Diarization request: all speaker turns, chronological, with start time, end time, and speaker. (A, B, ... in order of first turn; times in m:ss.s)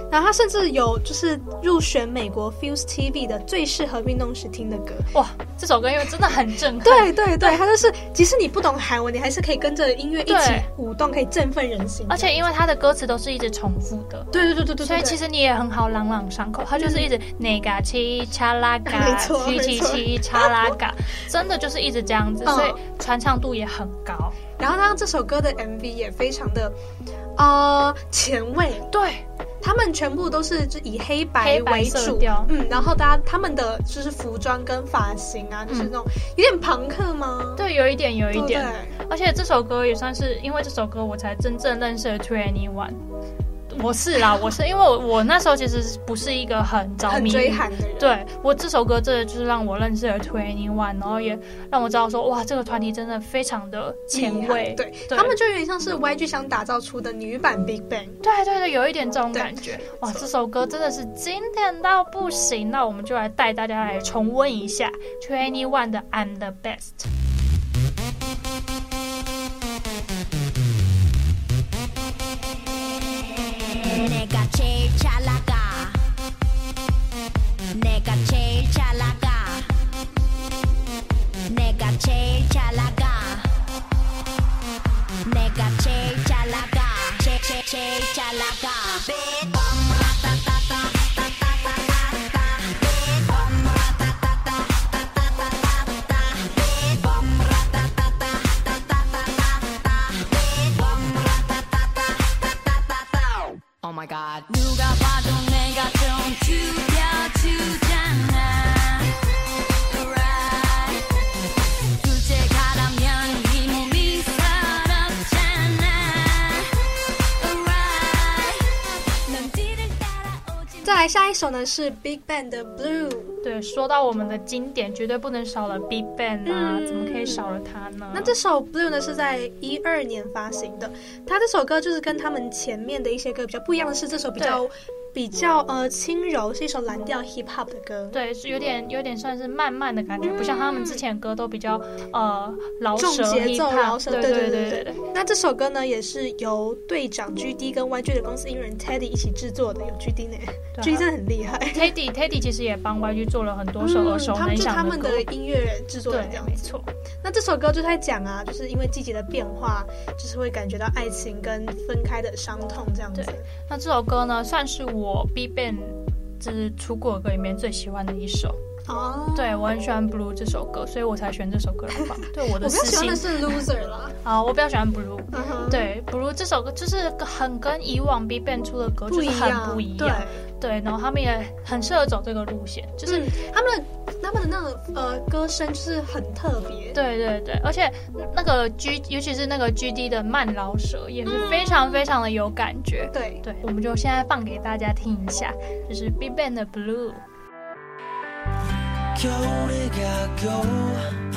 0:00.1-0:05.1 A
0:05.1-0:07.6 B
0:06.8-0:12.5 A
0:10.3-0:10.7 B
0:12.1-0:24.4 B
0:14.3-0:15.2 A
0:16.8-0:17.1 A
0:18.9-0:20.7 A
0:22.4-0:22.8 A
0:24.6-0:26.8 A
0:27.4-0:28.9 A
0:28.9-0:29.2 B
0:29.6-0:37.7 A
0:31.4-0:32.9 B
0:37.6-0:43.0 B
0:38.3-0:39.0 A
0:43.7-0:55.4 B
0:47.0-0:48.1 A
0:54.1-0:58.2 A
0:58.2-1:07.1 B
0:59.3-1:00.3 A
1:13.8-1:16.0 C
1:17.7-1:19.7 C
1:21.5-1:23.5 C
1:25.2-1:43.4 C
1:43.8-1:49.1 D
1:49.9-1:51.0 D
1:52.0-1:56.7 D
1:57.4-2:01.0 D
2:00.8-2:03.4 A
2:03.4-2:08.4 B
2:06.4-2:07.5 A
2:08.1-2:18.2 A
2:14.4-2:14.7 B
2:18.1-2:25.0 B
2:20.2-2:21.0 A
2:23.0-2:31.9 A
2:30.8-2:31.1 B
2:31.7-2:35.3 B
2:33.8-2:36.6 A
2:36.1-2:36.9 B
2:37.2-2:43.5 A
2:43.2-2:48.6 B
2:48.9-2:49.7 A
2:49.4-2:53.6 B
2:52.2-2:54.1 A
2:54.2-3:03.3 B
2:55.3-2:55.9 A
2:59.1-3:00.4 A
3:03.1-3:07.0 A
3:07.0-3:17.2 B
3:11.2-3:12.0 A
3:13.1-3:13.4 A
3:19.1-3:21.1 E